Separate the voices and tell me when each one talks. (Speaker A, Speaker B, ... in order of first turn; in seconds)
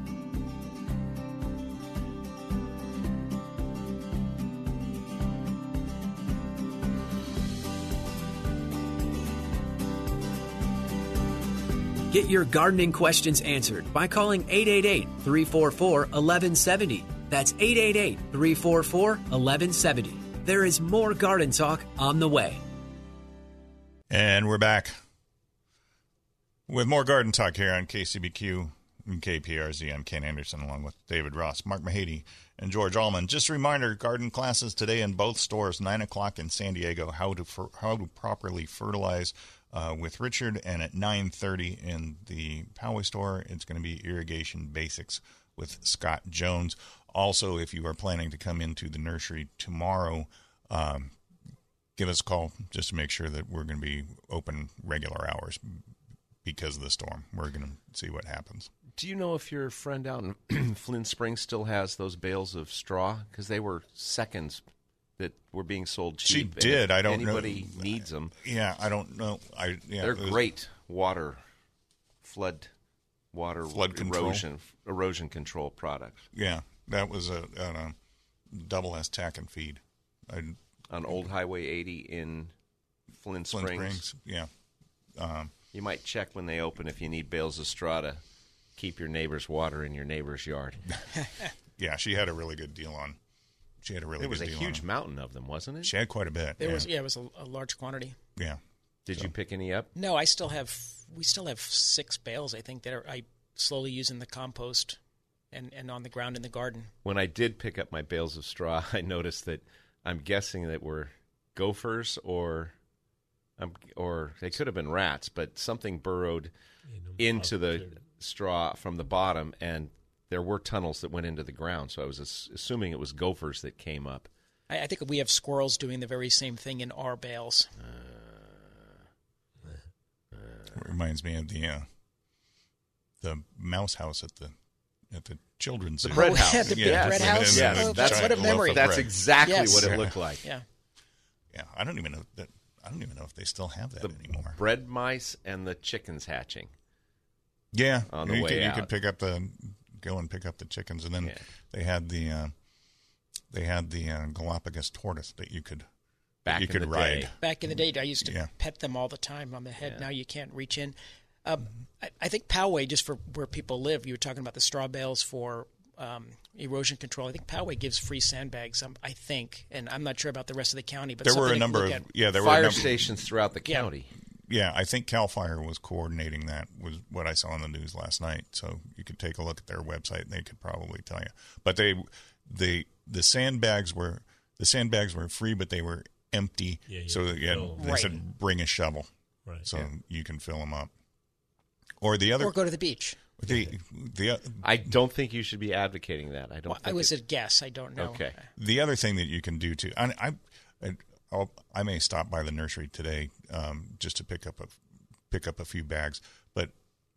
Speaker A: 12.1-22.6
Speaker B: 24.1-24.9, 26.7-51.1, 52.0-55.8, 56.4-58.7, 66.2-70.4, 73.7-74.4, 76.3-78.0, 78.5-80.6, 83.5-84.5, 85.2-85.5, 91.8-93.2, 93.8-94.8, 95.8-96.9, 130.7-131.8, 133.2-134.5, 135.1-140.2, 141.5-144.6, 147.7-152.5, 153.5-155.8, 156.5-157.3, 158.2-158.5, 171.2-173.1, 174.5-189.1, 189.6-190.9, 192.0-192.6, 193.4-194.9, 198.6-204.8, 205.3-206.7
Speaker C: 59.0-64.6, 65.2-68.3, 70.0-71.4, 72.2-72.7, 73.3-76.3, 80.9-82.5, 83.2-84.0, 85.7-88.2, 88.8-90.8, 94.2-95.9, 99.0-99.9, 107.0-112.7, 113.6-116.5, 117.2-124.3, 136.0-140.4, 144.0-146.7, 148.1-148.9, 156.4-157.3, 172.4-174.1, 194.6-197.1, 198.0-198.3
Speaker D: 96.6-98.2, 100.0-105.0, 105.5-106.9, 124.7-127.7, 136.1-138.9, 139.4-140.6, 157.4-172.0, 187.8-188.1, 192.4-193.2, 196.7-198.2
Speaker E: 116.9-118.0, 186.9-188.2, 189.4-189.9